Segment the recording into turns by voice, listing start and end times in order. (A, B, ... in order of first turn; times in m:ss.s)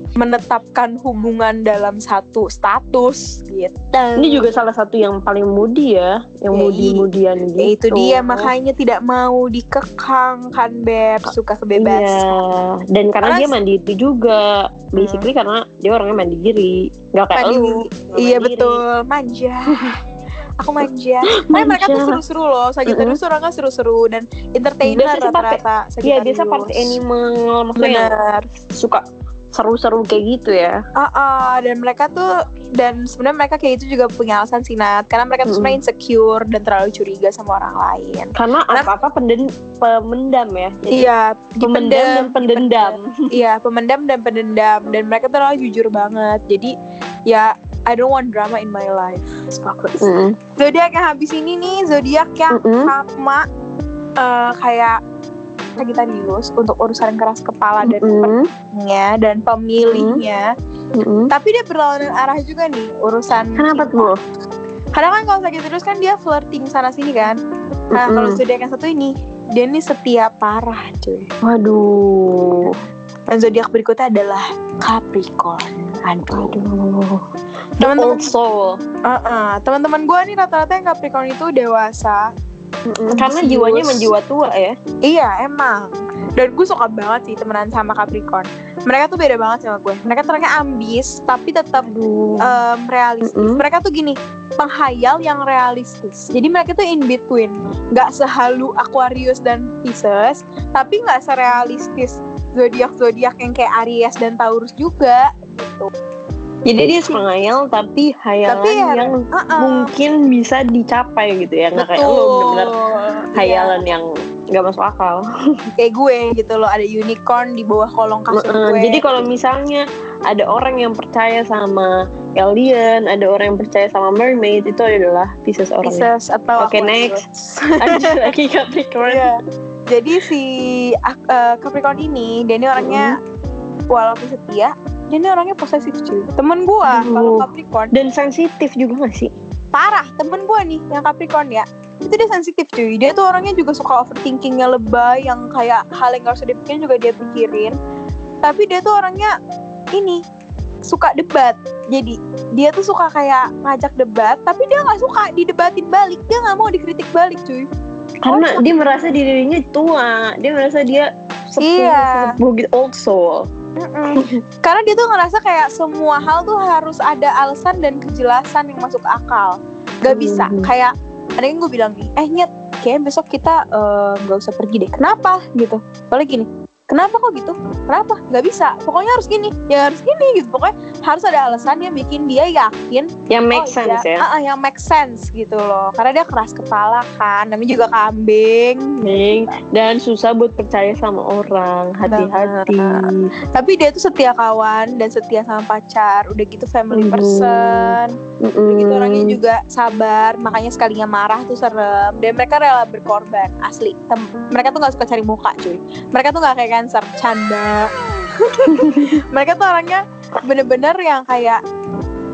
0:00.2-0:04.5 A
0:04.2-0:08.5 B
0:06.5-0:07.1 A
0:07.6-0:12.3 A
0:11.8-0:18.8 B
0:13.2-0:13.6 A
0:15.0-0:15.3 A
0:17.4-0:20.0 A
0:20.6-0:27.0 A
0:21.3-0:22.2 B
0:22.9-0:23.2 B
0:24.8-0:28.2 B
0:27.8-0:28.5 A
0:28.7-0:30.8 B
0:31.0-0:38.9 A
0:35.5-0:35.8 B
0:38.4-0:41.1 B
0:40.9-0:46.7 A
0:41.6-0:43.3 B
0:47.3-0:53.4 A
0:50.0-0:50.4 B
0:52.5-0:52.9 B
0:54.2-0:55.0 A
0:55.8-1:00.5 A
0:57.8-0:58.5 B
0:59.8-1:00.2 B
1:01.0-1:01.3 B
1:01.3-1:04.1 A
1:03.6-1:04.2 B
1:05.0-1:07.4 A
1:07.9-1:08.4 B
1:08.0-1:11.3 A
1:11.4-1:12.8 B
1:13.3-1:16.6 A
1:16.3-1:17.2 B
1:17.8-1:18.3 A
1:17.8-1:18.8 B
1:19.1-1:22.3 A
1:22.9-1:24.8 B
1:23.1-1:24.1 A
1:25.1-1:31.9 A
1:31.8-1:32.5 B
1:32.4-1:45.9 A
1:33.2-1:33.6 B
1:46.7-1:52.8 B
1:48.5-1:49.9 A
1:51.8-1:53.8 A
1:53.4-1:55.2 B
1:55.8-1:59.1 A
1:58.3-2:07.2 B
2:05.8-2:08.3 A
2:07.8-2:09.3 B
2:09.0-2:13.2 A
2:12.8-2:13.1 B
2:13.9-2:18.0 A
2:16.9-2:19.3 B
2:19.7-2:27.8 A
2:28.4-2:29.4 A
2:29.9-2:30.2 A
2:30.9-2:37.7 A
2:38.2-2:43.5 B
2:38.3-2:38.7 A
2:41.6-2:42.4 A
2:43.8-3:09.0 A
2:44.2-2:44.4 B
2:50.1-2:50.7 B
3:03.3-3:04.2 B
3:09.0-3:13.3 B
3:12.1-3:18.2 A
3:16.9-3:19.4 B
3:18.7-3:31.6 A
3:28.7-3:29.1 B